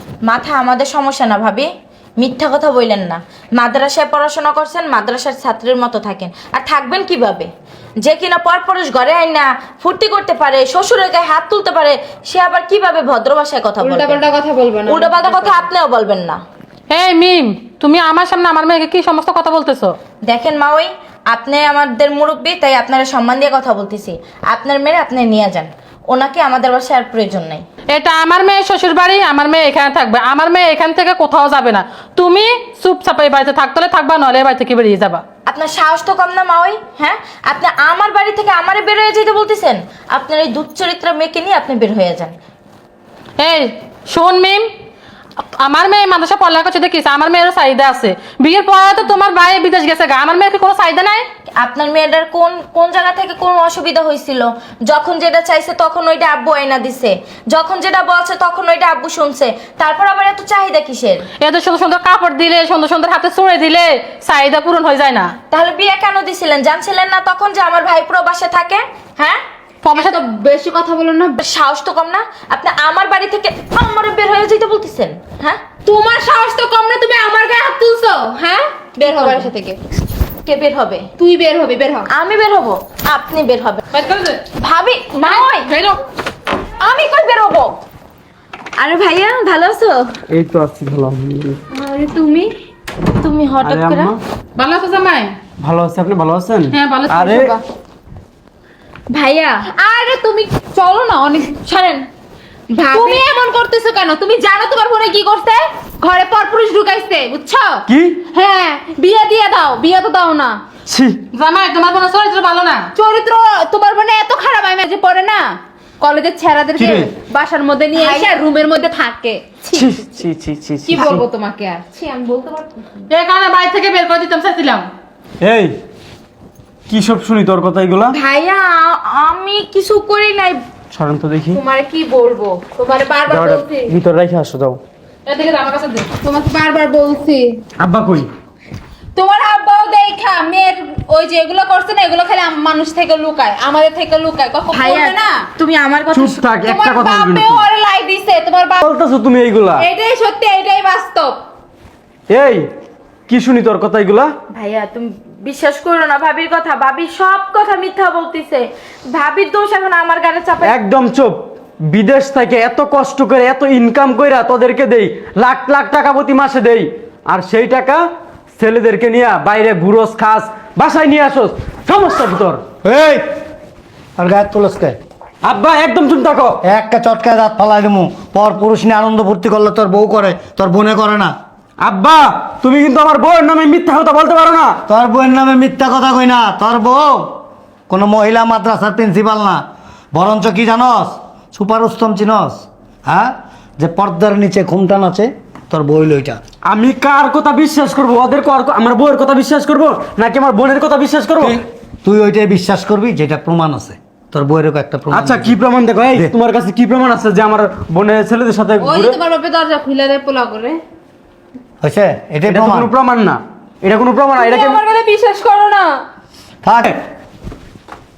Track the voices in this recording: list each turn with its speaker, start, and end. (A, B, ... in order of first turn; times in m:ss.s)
0:00.2-0:07.5 A
0:08.0-0:14.2 A
0:13.8-0:15.7 B
0:14.9-0:16.4 A
0:16.9-0:19.9 C
0:20.3-0:27.6 A
0:27.9-0:35.2 C
0:35.5-0:42.4 A
0:43.4-0:44.7 C
0:45.6-0:51.3 C
0:51.6-1:01.2 A
1:01.4-1:05.3 C
1:05.5-1:09.4 A
1:09.8-1:10.2 C
1:10.0-1:11.4 B
1:11.4-1:15.6 A
1:15.8-1:19.8 B
1:19.0-1:19.5 A
1:20.4-1:21.1 A
1:21.2-1:22.1 B
1:22.1-1:23.8 A
1:24.0-1:24.4 B
1:24.6-1:25.7 A
1:26.8-1:27.8 A
1:28.8-1:30.1 A
1:30.3-1:31.6 D
1:31.7-1:32.5 B
1:33.2-1:34.1 A
1:33.6-1:34.2 D
1:34.6-1:35.4 C
1:35.6-1:37.6 D
1:36.7-1:37.3 C
1:37.2-1:37.6 B
1:39.1-1:39.6 A
1:39.7-1:41.6 B
1:41.6-1:42.0 A
1:42.8-1:43.2 A
1:42.8-1:50.6 B
1:47.9-1:48.2 D
1:50.9-1:51.2 D
1:51.3-1:52.9 C
1:52.9-2:00.2 B
1:56.8-1:57.1 D
1:58.0-1:58.4 A
1:59.7-2:01.2 D
2:00.8-2:02.7 B
2:03.1-2:04.9 C
2:05.4-2:05.8 D
2:06.9-2:08.2 D
2:08.1-2:10.6 A
2:10.9-2:11.6 D
2:11.5-2:14.0 B
2:13.3-2:14.8 D
2:15.3-2:16.1 C
2:16.2-2:17.6 B
2:17.8-2:18.3 D
2:19.2-2:25.4 B
2:24.7-2:26.4 A
2:26.1-2:27.7 D
2:26.6-2:28.8 B
2:28.8-2:29.9 D
2:29.8-2:31.4 B
2:32.3-2:32.7 D
2:33.3-2:34.3 D
2:34.5-2:40.8 A
2:40.6-2:48.0 D
2:48.6-2:52.6 D
2:52.8-2:53.2 E
2:54.2-2:55.0 E
2:55.4-2:56.6 D
2:56.6-3:01.3 E
3:01.8-3:04.8 D
3:04.9-3:07.4 E
3:07.9-3:09.6 E
3:10.1-3:16.4 E
3:16.7-3:21.6 D
3:21.4-3:25.6 E
3:25.1-3:29.2 D
3:28.8-3:30.8 B
3:31.8-3:32.9 E
3:32.5-3:34.8 D
3:34.3-3:36.0 B
3:36.6-3:36.9 E